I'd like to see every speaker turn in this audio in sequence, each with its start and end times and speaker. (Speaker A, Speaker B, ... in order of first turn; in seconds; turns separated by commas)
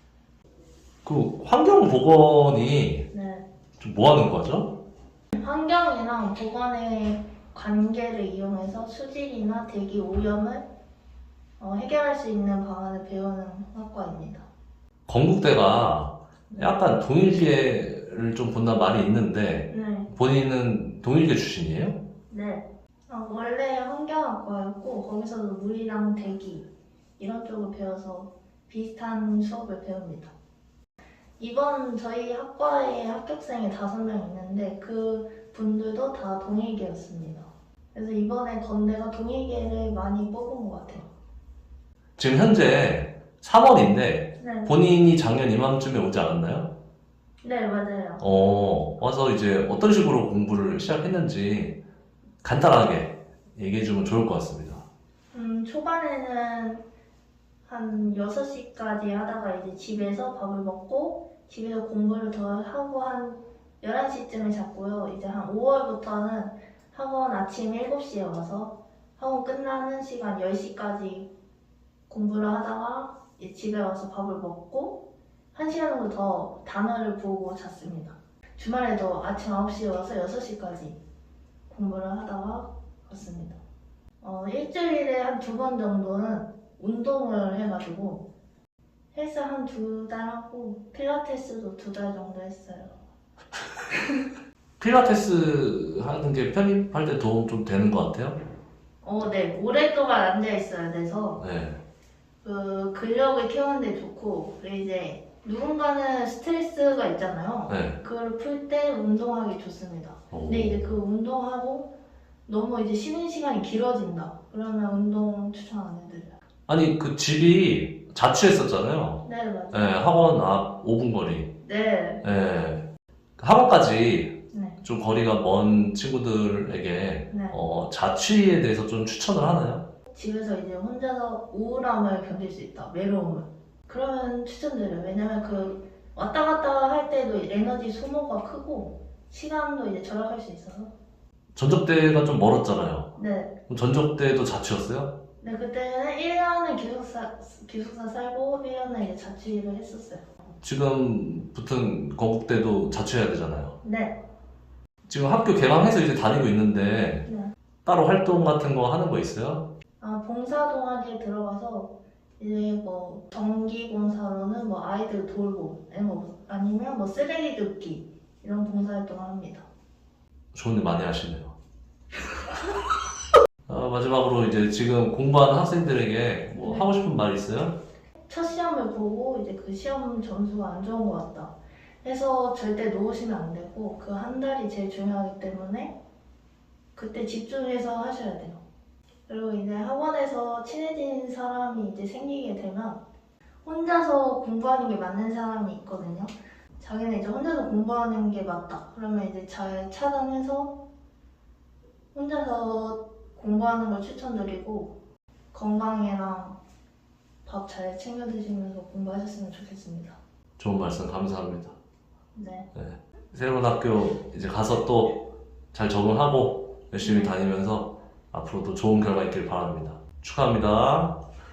Speaker A: 1.0-3.1, Speaker B: 3.1-3.4, Speaker A: 3.8-4.7, Speaker B: 5.3-10.7, Speaker B: 11.6-14.5, Speaker A: 15.1-22.0, Speaker B: 16.5-16.9, Speaker B: 19.7-20.1, Speaker B: 22.3-30.3, Speaker B: 31.4-41.0, Speaker A: 42.2-46.7, Speaker B: 44.4-44.7, Speaker B: 47.4-48.2, Speaker A: 48.2-51.8, Speaker A: 52.4-54.8, Speaker B: 55.3-56.8, Speaker B: 57.6-71.3, Speaker B: 72.1-75.0, Speaker B: 75.5-81.0, Speaker B: 81.7-83.6, Speaker B: 84.2-88.3, Speaker B: 89.1-93.0, Speaker A: 94.8-98.4, Speaker B: 99.0-101.4, Speaker A: 101.4-101.8, Speaker B: 102.4-111.9, Speaker A: 107.7-108.0, Speaker A: 110.3-110.9, Speaker B: 112.5-116.3, Speaker A: 116.7-121.5, Speaker B: 119.2-119.9, Speaker B: 121.6-122.2, Speaker A: 122.2-122.8, Speaker A: 123.4-129.8, Speaker B: 124.5-124.8, Speaker B: 127.3-127.6, Speaker B: 130.1-140.9, Speaker A: 141.5-143.1, Speaker B: 143.2-143.5, Speaker A: 143.7-145.1, Speaker B: 145.4-150.2, Speaker A: 150.6-153.7, Speaker B: 153.8-154.2, Speaker A: 155.1-157.3, Speaker B: 157.2-157.5, Speaker A: 157.8-159.7, Speaker B: 160.0-169.7, Speaker A: 170.5-171.5, Speaker A: 173.7-177.8, Speaker B: 178.3-185.9, Speaker B: 186.9-188.6, Speaker B: 189.3-193.0, Speaker B: 193.6-200.7, Speaker B: 202.1-204.9, Speaker B: 205.5-206.6, Speaker B: 207.4-210.2, Speaker A: 210.6-211.7, Speaker B: 212.3-212.7, Speaker A: 212.7-215.1, Speaker A: 215.7-221.2, Speaker B: 217.0-217.3